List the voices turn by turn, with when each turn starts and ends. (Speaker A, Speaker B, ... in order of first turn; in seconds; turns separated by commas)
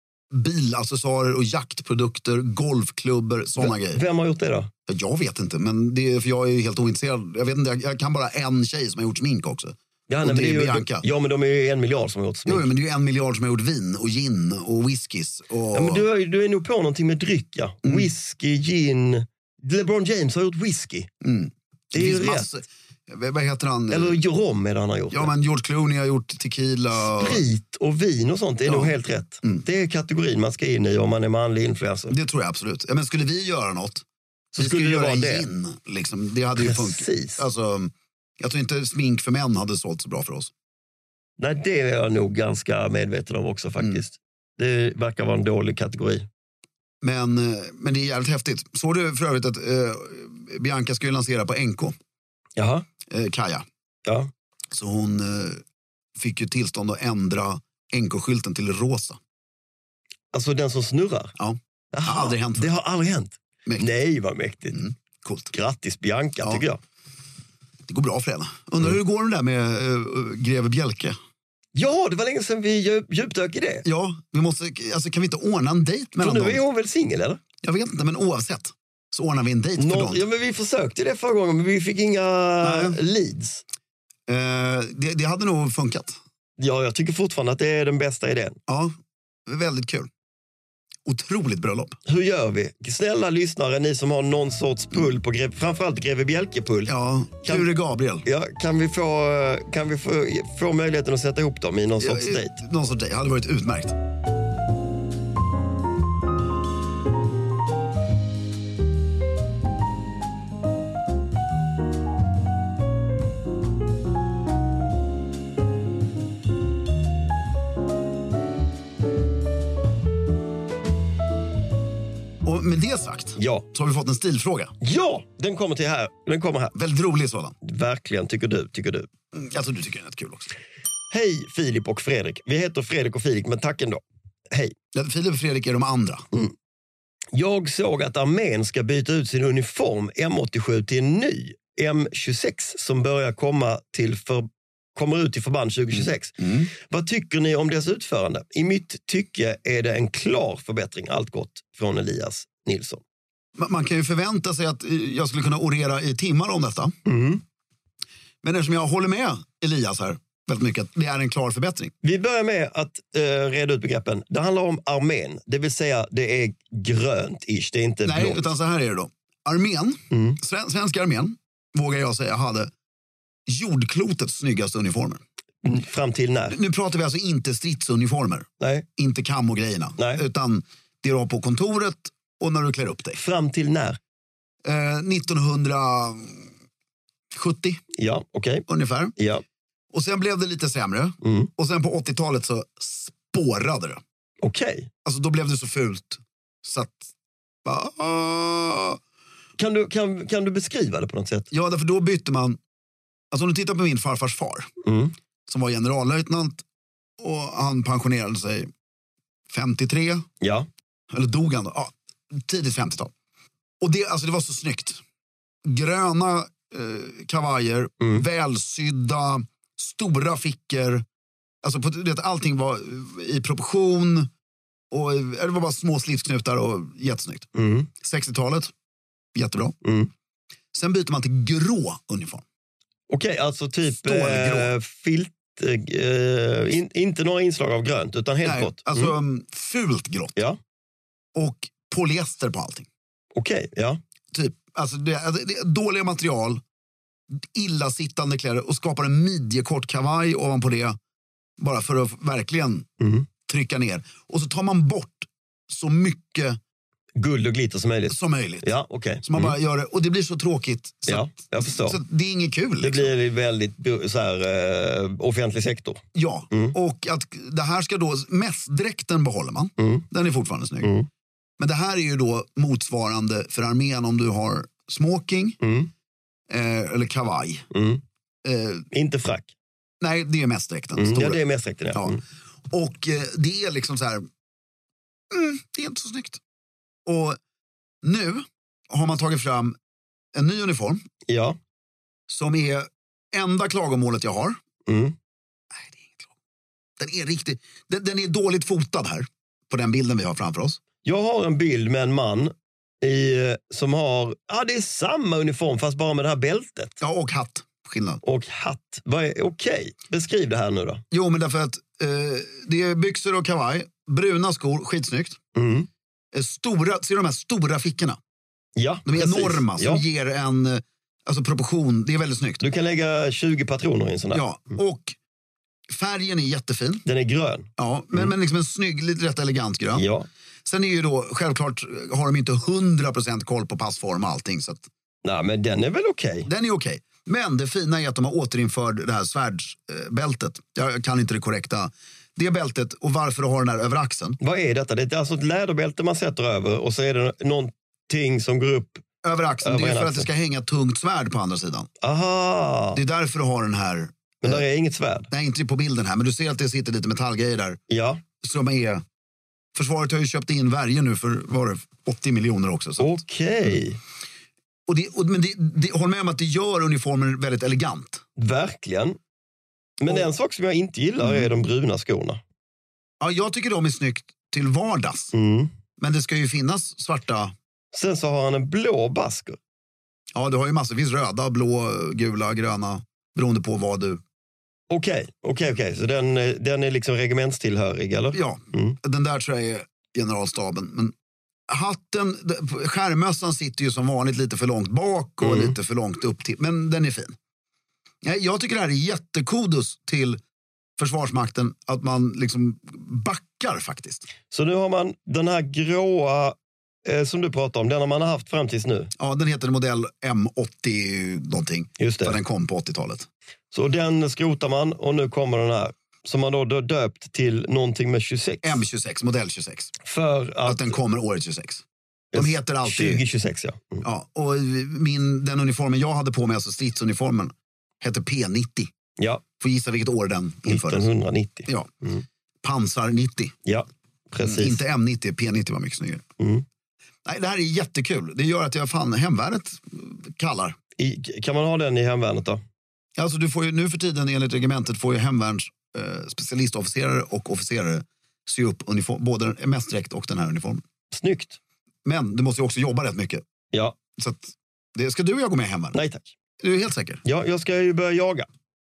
Speaker A: 0.3-4.0, Speaker B: 3.6-4.7, Speaker A: 4.9-11.0, Speaker B: 10.1-12.7, Speaker A: 12.4-16.1, Speaker B: 15.7-21.1, Speaker A: 17.8-18.1, Speaker A: 21.2-24.1, Speaker B: 21.9-22.5, Speaker B: 23.9-25.3, Speaker A: 25.1-27.4, Speaker B: 26.9-32.1, Speaker A: 28.6-29.6, Speaker A: 32.1-34.0, Speaker B: 34.5-35.5, Speaker A: 34.6-40.5, Speaker B: 36.6-37.4, Speaker B: 41.4-46.3, Speaker A: 47.0-51.9, Speaker B: 52.5-52.9, Speaker A: 53.1-53.6, Speaker B: 54.0-54.3, Speaker A: 54.7-55.6, Speaker A: 56.2-59.2, Speaker B: 60.3-61.3, Speaker A: 61.4-62.7, Speaker B: 61.9-64.8, Speaker A: 64.7-65.5, Speaker B: 65.5-66.8, Speaker A: 67.9-71.2, Speaker B: 71.7-73.8, Speaker A: 73.8-76.6, Speaker B: 76.2-77.4, Speaker A: 77.6-80.2, Speaker B: 79.8-83.6, Speaker A: 82.6-83.0, Speaker A: 84.3-86.2, Speaker B: 86.6-88.6, Speaker A: 88.7-89.0, Speaker A: 89.5-90.1, Speaker A: 91.0-92.0, Speaker B: 92.0-97.7, Speaker A: 96.9-98.2, Speaker B: 98.2-102.5, Speaker A: 102.0-103.9, Speaker A: 122.4-124.7, Speaker B: 123.4-123.7, Speaker B: 124.8-126.7, Speaker A: 126.7-127.5, Speaker B: 127.6-129.1, Speaker A: 129.3-130.5, Speaker B: 131.1-134.7, Speaker A: 134.9-136.2, Speaker B: 137.3-153.0, Speaker A: 145.9-146.7, Speaker A: 153.6-156.9, Speaker B: 157.1-157.4, Speaker A: 158.4-161.9, Speaker B: 162.0-168.4, Speaker A: 168.0-172.7, Speaker B: 170.1-170.4, Speaker A: 173.5-175.2, Speaker B: 175.6-176.6, Speaker A: 176.5-183.2, Speaker B: 178.6-178.9, Speaker B: 183.1-184.0, Speaker A: 184.6-186.5, Speaker A: 187.3-187.8, Speaker B: 187.9-188.7, Speaker A: 188.7-189.1, Speaker B: 189.2-189.4, Speaker A: 189.9-194.0, Speaker B: 191.2-191.5, Speaker B: 194.4-194.9, Speaker A: 195.0-197.1, Speaker A: 197.6-199.0, Speaker B: 199.6-201.5, Speaker A: 201.5-202.6, Speaker A: 203.3-204.7, Speaker B: 204.8-205.1, Speaker A: 205.5-206.6, Speaker A: 207.2-208.7, Speaker A: 209.5-210.2, Speaker B: 210.4-210.7, Speaker A: 211.1-213.1, Speaker A: 213.8-215.0, Speaker A: 215.6-221.0, Speaker A: 221.6-224.3, Speaker A: 224.9-227.5, Speaker B: 227.5-227.9, Speaker A: 228.0-228.7, Speaker A: 229.3-229.8, Speaker B: 229.8-230.1, Speaker A: 230.7-232.4, Speaker B: 233.1-239.1, Speaker A: 233.9-234.7, Speaker A: 238.4-240.3, Speaker A: 241.3-242.9, Speaker B: 243.3-244.0, Speaker A: 244.3-246.6, Speaker A: 247.3-251.0, Speaker A: 251.6-252.9, Speaker B: 253.0-253.3, Speaker A: 253.4-256.6, Speaker B: 257.1-259.5, Speaker A: 258.1-258.7, Speaker A: 259.2-263.1, Speaker B: 261.1-262.0, Speaker B: 262.8-266.7, Speaker A: 266.1-270.9, Speaker B: 269.8-270.0, Speaker B: 270.8-271.1, Speaker A: 271.6-275.6, Speaker B: 275.6-275.9, Speaker A: 276.5-277.7, Speaker B: 277.7-278.0, Speaker A: 278.4-278.9, Speaker B: 278.9-279.5, Speaker A: 280.0-281.4, Speaker B: 280.9-282.2, Speaker A: 281.9-284.2, Speaker A: 285.3-286.4, Speaker A: 287.1-287.4, Speaker A: 288.0-289.8, Speaker A: 290.3-291.0, Speaker B: 291.3-291.6, Speaker A: 292.3-294.6, Speaker B: 294.9-295.1, Speaker A: 295.7-296.3, Speaker A: 297.0-300.8, Speaker B: 301.0-307.0, Speaker A: 307.0-308.2, Speaker B: 308.2-311.0, Speaker A: 311.1-315.4, Speaker B: 315.5-315.9, Speaker A: 316.3-318.2, Speaker B: 318.8-320.0, Speaker A: 319.1-322.6, Speaker B: 322.6-324.4, Speaker A: 324.3-325.1, Speaker A: 325.9-327.0, Speaker B: 327.1-328.3, Speaker A: 327.8-330.1, Speaker B: 329.9-330.3, Speaker A: 330.6-334.8, Speaker B: 335.2-336.5, Speaker A: 336.4-344.4, Speaker B: 344.4-349.0, Speaker A: 349.2-351.9, Speaker B: 349.6-350.3, Speaker B: 352.0-353.0, Speaker A: 352.9-354.6, Speaker B: 354.4-355.3, Speaker A: 355.3-357.8, Speaker B: 357.9-358.2, Speaker A: 358.4-359.0, Speaker A: 359.7-363.2, Speaker B: 363.0-364.0, Speaker A: 364.9-368.2, Speaker B: 368.4-369.2, Speaker B: 370.0-372.4, Speaker A: 371.2-371.5, Speaker A: 373.2-375.3, Speaker B: 375.3-375.7, Speaker A: 376.0-377.5, Speaker B: 377.9-379.6, Speaker A: 380.3-384.2, Speaker B: 384.9-388.9, Speaker A: 388.3-391.1, Speaker A: 391.7-397.3, Speaker B: 395.4-395.7, Speaker A: 398.2-400.4, Speaker A: 401.0-404.3, Speaker B: 404.5-409.1, Speaker A: 409.2-413.2, Speaker B: 412.0-412.4, Speaker B: 413.7-418.8, Speaker A: 418.6-419.9, Speaker B: 420.0-420.9, Speaker A: 420.6-423.2, Speaker B: 422.3-424.0, Speaker A: 424.0-428.9, Speaker B: 429.2-429.4, Speaker A: 429.6-431.1, Speaker B: 430.7-432.2, Speaker A: 432.6-433.5, Speaker B: 433.6-434.8, Speaker A: 434.4-436.2, Speaker B: 436.4-436.6, Speaker A: 437.2-440.8, Speaker B: 441.0-442.6, Speaker A: 443.2-450.8, Speaker B: 451.1-451.6, Speaker A: 452.0-453.4, Speaker A: 454.2-456.0, Speaker B: 455.9-456.3, Speaker A: 456.6-457.2, Speaker B: 457.2-458.5